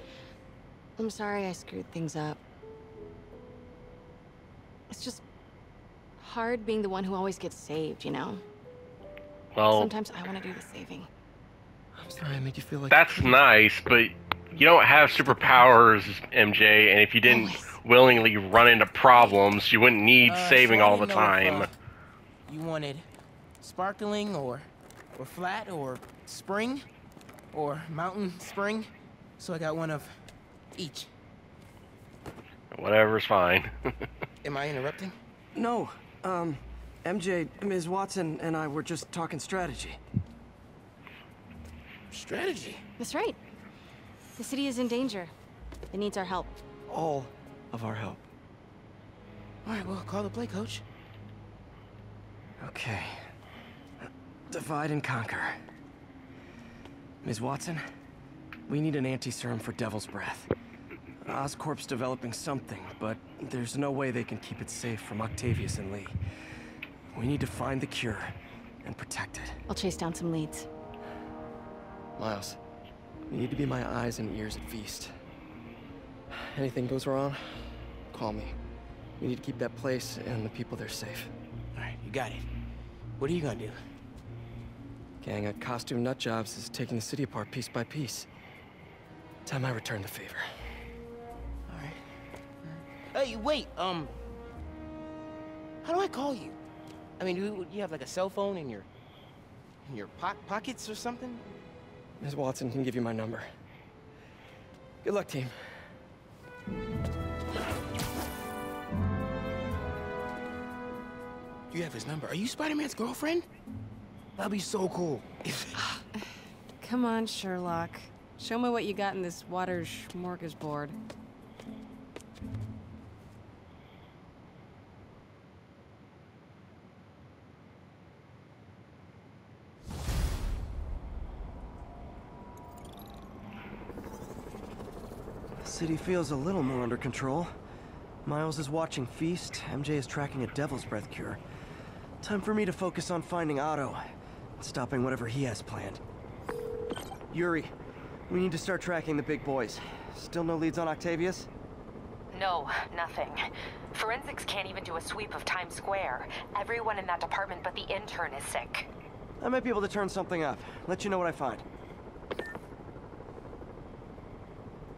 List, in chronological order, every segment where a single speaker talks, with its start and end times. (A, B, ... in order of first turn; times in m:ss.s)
0:01.0-0:02.4 A
0:04.9-0:05.2 A
0:06.2-0:08.4 A
0:09.6-0:10.0 B
0:09.7-0:11.1 A
0:12.0-0:12.9 C
0:12.9-0:21.7 B
0:17.2-0:17.7 A
0:20.2-0:21.7 C
0:22.5-0:23.0 C
0:23.6-0:26.9 C
0:27.5-0:30.2 C
0:30.8-0:31.1 C
0:32.7-0:33.9 B
0:34.4-0:35.2 C
0:35.5-0:40.0 D
0:42.1-0:42.8 C
0:43.0-0:43.4 A
0:44.4-0:45.3 A
0:45.9-0:46.6 A
0:46.9-0:48.2 D
0:49.6-0:50.8 C
0:52.6-0:53.3 D
0:54.5-0:55.6 D
0:57.2-0:57.8 D
0:58.7-1:00.5 D
1:01.2-1:06.2 D
1:07.1-1:09.6 D
1:09.7-1:10.7 A
1:12.2-1:12.6 D
1:13.3-1:15.1 D
1:16.3-1:18.6 D
1:19.2-1:21.3 D
1:21.8-1:22.5 C
1:23.2-1:23.8 C
1:25.2-1:28.3 D
1:29.5-1:30.5 D
1:31.7-1:32.0 C
1:32.6-1:34.1 C
1:35.8-1:36.6 C
1:37.2-1:38.9 C
1:39.8-1:41.5 C
1:42.2-1:43.5 D
1:45.0-1:45.6 D
1:51.7-1:53.5 C
1:54.4-1:55.8 C
1:56.8-2:01.0 A
2:15.6-2:17.5 D
2:18.2-2:21.4 D
2:22.2-2:24.0 D
2:24.6-2:26.0 D
2:27.3-2:27.7 D
2:28.3-2:31.5 D
2:32.3-2:33.4 E
2:33.9-2:38.9 E
2:39.4-2:41.6 D